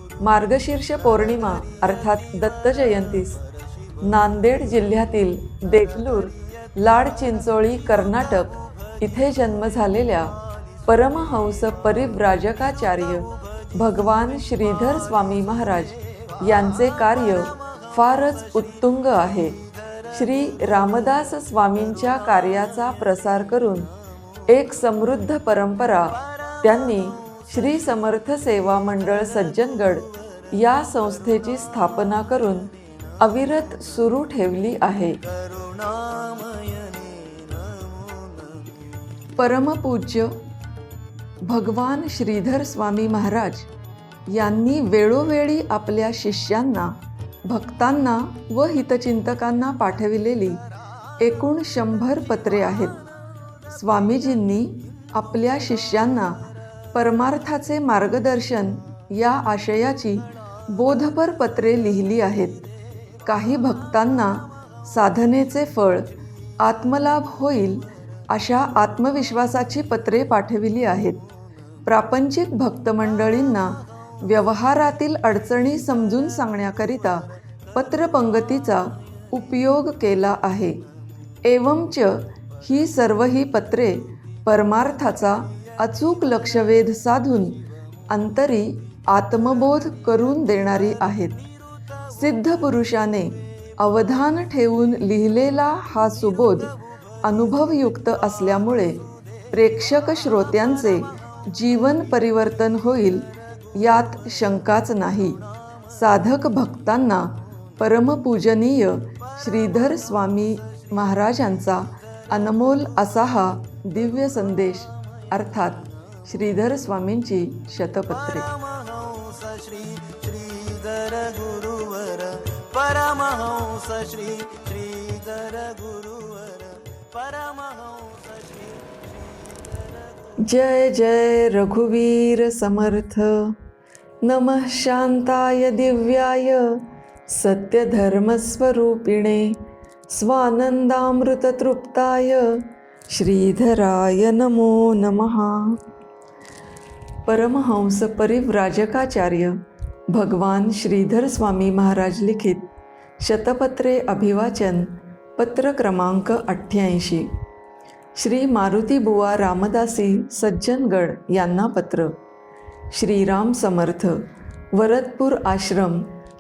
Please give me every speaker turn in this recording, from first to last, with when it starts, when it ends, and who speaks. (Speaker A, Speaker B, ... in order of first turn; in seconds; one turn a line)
Speaker A: 0.2-3.4
Speaker A: 4.0-19.6
Speaker B: 16.6-18.2
Speaker B: 19.8-20.6
Speaker A: 20.1-23.9
Speaker B: 22.0-23.0
Speaker A: 24.5-35.2
Speaker B: 26.2-27.9
Speaker B: 29.2-31.7
Speaker B: 35.2-38.7
Speaker A: 39.4-40.3
Speaker A: 41.4-43.7
Speaker A: 44.3-46.9
Speaker A: 47.5-50.6
Speaker A: 51.2-53.0
Speaker A: 53.7-56.4
Speaker A: 56.9-62.7
Speaker A: 63.2-66.0
Speaker A: 66.6-71.2
Speaker A: 71.8-77.2
Speaker A: 77.7-80.8
Speaker A: 81.4-91.5
Speaker A: 92.1-96.7
Speaker A: 97.2-103.2
Speaker A: 103.8-118.5
Speaker B: 118.1-130.0
Speaker A: 130.4-133.5
Speaker A: 134.2-139.6
Speaker A: 140.1-145.8
Speaker A: 147.2-149.6
Speaker A: 150.1-157.3
Speaker A: 158.2-162.1
Speaker A: 162.9-164.2
Speaker A: 164.7-166.1